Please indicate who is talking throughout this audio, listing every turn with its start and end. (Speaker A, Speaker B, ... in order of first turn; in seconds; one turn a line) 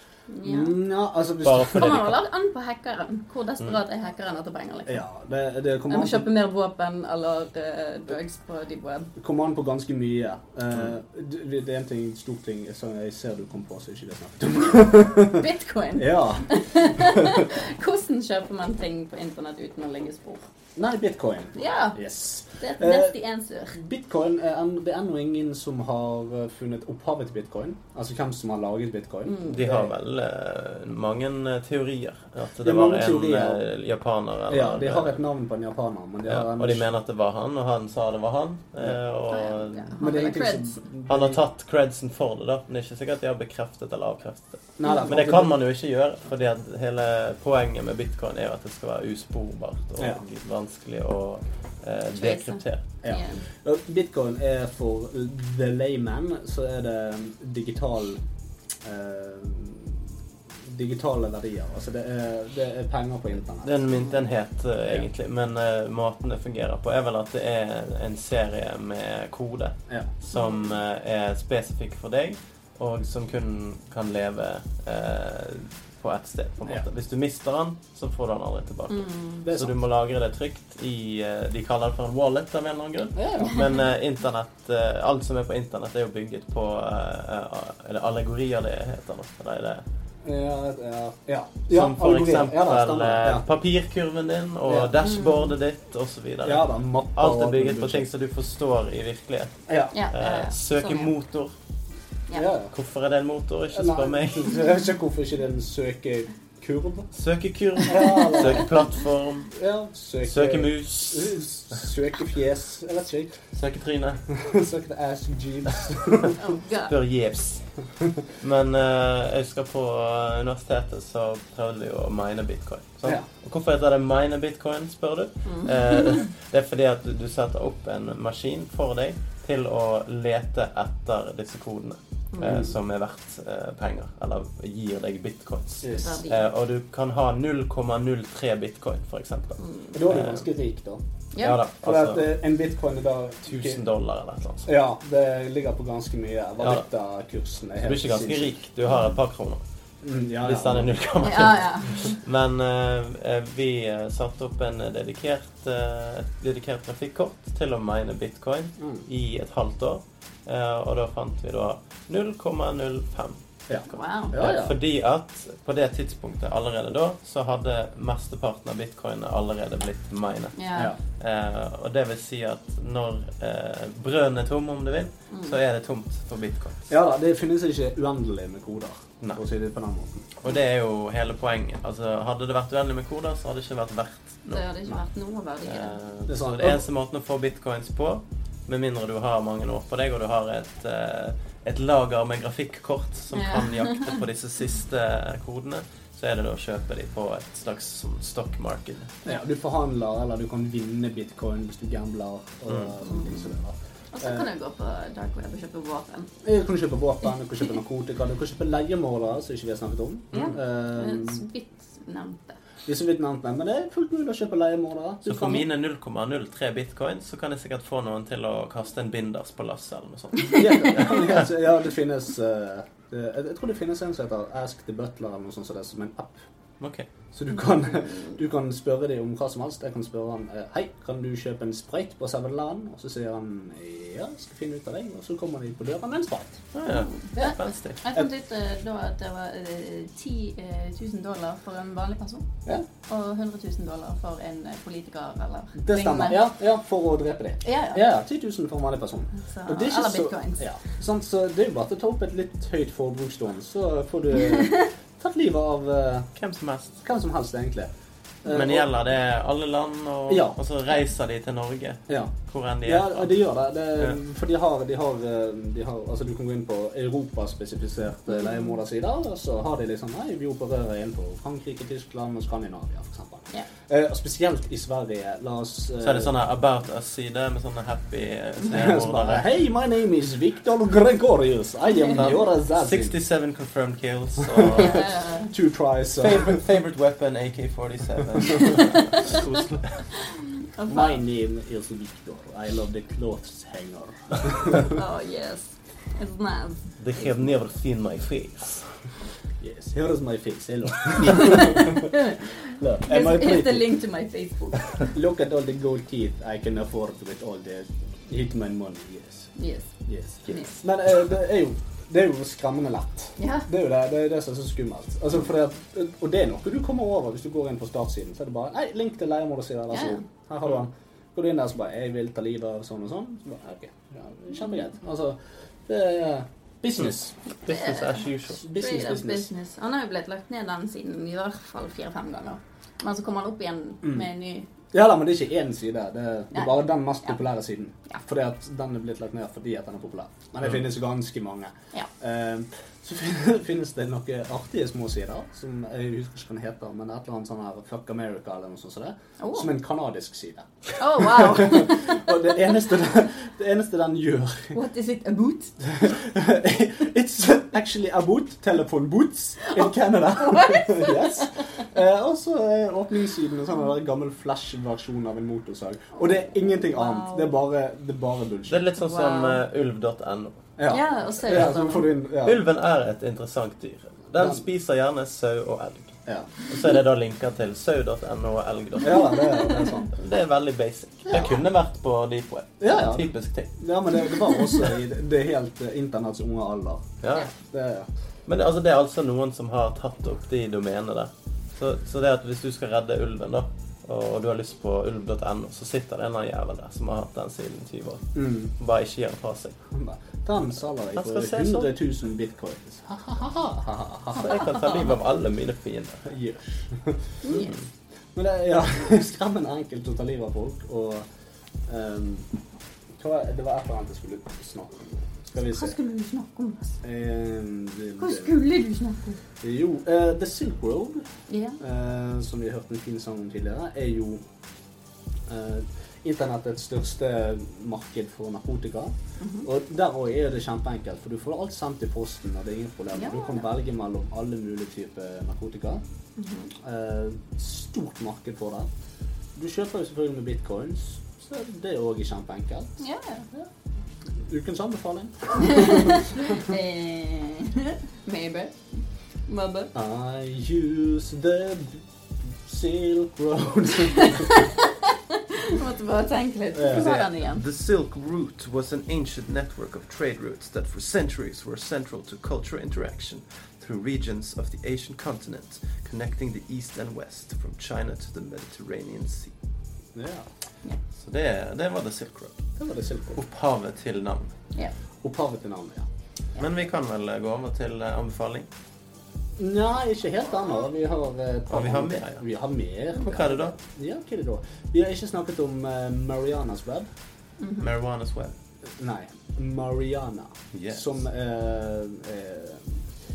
Speaker A: 0.3-0.8
Speaker B: 0.4-2.0
Speaker C: 1.4-2.2
Speaker A: 1.8-5.0
Speaker B: 4.9-6.3
Speaker A: 5.9-9.1
Speaker B: 9.2-17.4
Speaker A: 15.3-20.5
Speaker B: 20.8-23.1
Speaker A: 21.6-22.0
Speaker A: 22.5-23.8
Speaker B: 23.7-29.9
Speaker A: 29.3-29.6
Speaker C: 29.5-35.2
Speaker B: 32.6-33.6
Speaker B: 34.5-36.9
Speaker C: 36.3-40.0
Speaker A: 39.3-40.8
Speaker B: 40.0-41.4
Speaker C: 41.1-52.8
Speaker B: 44.8-45.6
Speaker B: 50.0-50.2
Speaker A: 52.2-53.5
Speaker B: 53.0-58.2
Speaker B: 58.8-60.0
Speaker B: 60.7-64.0
Speaker C: 63.6-89.8
Speaker A: 70.3-70.8
Speaker A: 78.9-79.5
Speaker B: 79.4-79.8
Speaker B: 83.2-83.7
Speaker B: 90.2-93.5
Speaker C: 91.7-99.6
Speaker B: 94.7-94.9
Speaker A: 95.0-95.5
Speaker B: 96.4-98.1
Speaker B: 99.7-100.0
Speaker A: 99.9-101.1
Speaker C: 100.1-101.5
Speaker B: 102.3-102.7
Speaker C: 102.7-104.6
Speaker B: 103.7-107.1
Speaker C: 107.1-109.5
Speaker B: 107.9-108.8
Speaker B: 109.5-113.4
Speaker C: 110.2-111.4
Speaker C: 113.5-114.2
Speaker B: 114.3-116.4
Speaker A: 116.4-116.9
Speaker C: 116.9-117.7
Speaker C: 118.4-140.5
Speaker A: 125.5-126.2
Speaker A: 132.3-132.7
Speaker B: 132.4-132.7
Speaker B: 135.8-136.2
Speaker A: 136.0-136.4
Speaker A: 139.6-139.9
Speaker B: 139.9-141.0
Speaker A: 141.3-141.6
Speaker C: 141.4-142.3
Speaker B: 141.8-143.8
Speaker C: 143.5-144.7
Speaker B: 144.7-148.6
Speaker C: 146.6-146.8
Speaker C: 147.8-149.6
Speaker B: 150.0-150.9
Speaker C: 150.4-163.4
Speaker A: 151.2-152.2
Speaker B: 158.8-159.1
Speaker B: 163.7-164.8
Speaker A: 163.9-164.4
Speaker C: 164.3-170.6
Speaker A: 170.6-170.9
Speaker B: 170.7-171.0
Speaker C: 171.2-176.9
Speaker A: 175.3-175.6
Speaker B: 176.9-180.3
Speaker C: 180.4-184.7
Speaker A: 184.5-186.0
Speaker C: 185.7-199.2
Speaker B: 186.3-186.8
Speaker A: 193.3-194.1
Speaker B: 199.2-204.5
Speaker A: 203.0-203.4
Speaker A: 204.1-206.3
Speaker B: 206.4-211.4
Speaker A: 210.3-212.6
Speaker B: 212.9-215.7
Speaker C: 215.2-221.3
Speaker B: 220.5-226.4
Speaker C: 226.8-227.1
Speaker B: 227.3-236.7
Speaker C: 236.7-238.0
Speaker A: 236.9-242.5
Speaker A: 243.1-246.4
Speaker B: 245.8-256.3
Speaker A: 247.6-248.0
Speaker A: 249.4-250.7
Speaker C: 256.4-257.0
Speaker B: 257.0-257.9
Speaker B: 258.4-258.9
Speaker C: 258.5-263.3
Speaker B: 260.3-260.6
Speaker B: 262.1-276.3
Speaker C: 276.0-279.4
Speaker B: 278.7-283.1
Speaker C: 282.2-285.0
Speaker B: 284.5-286.6
Speaker A: 284.7-285.5
Speaker C: 286.2-290.0
Speaker A: 290.7-291.2
Speaker B: 290.9-294.9
Speaker A: 294.9-296.8
Speaker C: 297.0-298.9
Speaker B: 299.6-302.1
Speaker A: 301.3-305.1
Speaker B: 302.8-303.9
Speaker B: 305.1-309.5
Speaker A: 309.6-309.9
Speaker B: 310.1-327.4
Speaker A: 310.5-310.8
Speaker A: 313.4-313.7
Speaker A: 319.9-320.2
Speaker A: 327.6-334.7
Speaker C: 327.7-328.6
Speaker B: 328.6-329.5
Speaker B: 334.9-354.8
Speaker A: 336.5-337.4
Speaker A: 349.4-349.7
Speaker A: 351.0-352.3
Speaker A: 354.7-355.8
Speaker B: 355.8-368.9
Speaker A: 359.6-361.6
Speaker A: 366.9-367.6
Speaker C: 368.7-370.6
Speaker A: 369.0-369.6
Speaker B: 370.8-372.6
Speaker A: 370.9-372.1
Speaker C: 372.4-376.2
Speaker B: 374.3-374.6
Speaker B: 376.3-376.5
Speaker C: 376.7-379.4
Speaker B: 379.0-380.1
Speaker A: 379.4-379.7
Speaker C: 380.1-383.8
Speaker B: 381.3-381.6
Speaker B: 382.8-387.1
Speaker C: 387.2-387.5
Speaker B: 387.7-388.1
Speaker C: 388.5-399.8
Speaker B: 398.4-398.7
Speaker B: 399.9-404.7
Speaker C: 401.1-401.9
Speaker C: 404.3-406.3
Speaker A: 404.6-404.9
Speaker B: 406.3-407.7
Speaker A: 407.4-407.7
Speaker C: 407.5-407.8
Speaker B: 408.4-411.3
Speaker B: 411.9-412.5
Speaker B: 413.2-416.0
Speaker A: 415.6-417.0
Speaker B: 417.0-418.5
Speaker A: 418.2-419.4
Speaker B: 419.6-421.3
Speaker A: 421.5-421.8
Speaker B: 421.8-424.4
Speaker B: 425.5-436.0
Speaker A: 429.4-429.7
Speaker A: 433.1-433.6
Speaker A: 436.4-436.7
Speaker B: 436.8-438.9
Speaker B: 439.6-443.0
Speaker A: 443.0-443.4
Speaker B: 444.4-446.6
Speaker A: 445.6-449.9
Speaker B: 449.9-452.0
Speaker B: 452.7-454.5
Speaker A: 454.2-454.8
Speaker A: 455.5-457.6
Speaker B: 456.7-457.3
Speaker C: 457.4-469.5
Speaker B: 470.1-470.5
Speaker C: 471.2-472.6
Speaker B: 472.8-473.4
Speaker C: 473.4-474.5
Speaker B: 475.2-476.1
Speaker C: 476.6-478.7
Speaker B: 479.6-487.1
Speaker C: 481.7-482.4
Speaker C: 483.2-483.8
Speaker A: 487.6-487.9
Speaker C: 487.8-488.6
Speaker B: 489.0-493.1
Speaker C: 490.7-491.1